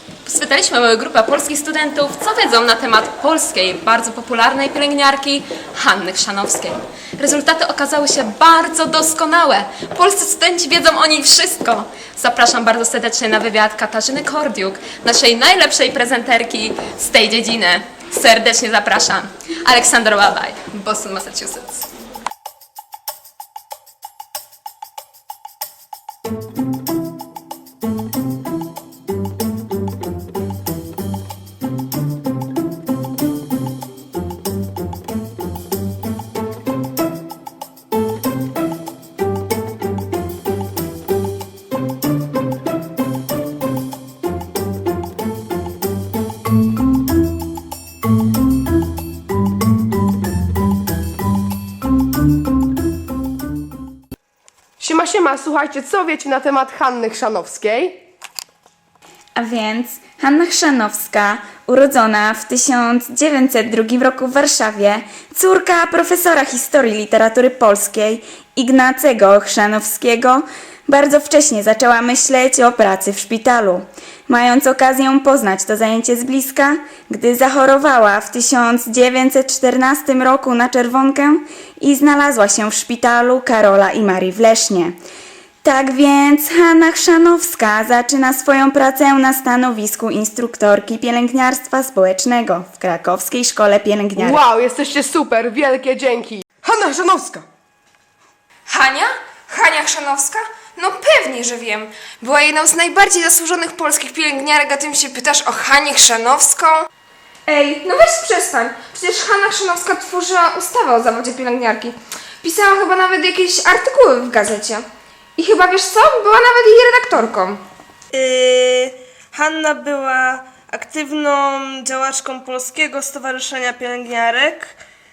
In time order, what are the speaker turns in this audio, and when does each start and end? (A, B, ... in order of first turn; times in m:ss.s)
0:00.2-0:21.8 A
0:54.8-0:58.0 B
0:59.4-1:24.9 C
1:25.6-1:34.4 C
1:34.1-1:37.4 B
1:38.7-1:46.8 D
1:47.5-1:54.8 D
1:55.4-1:57.6 D
1:58.1-2:04.7 E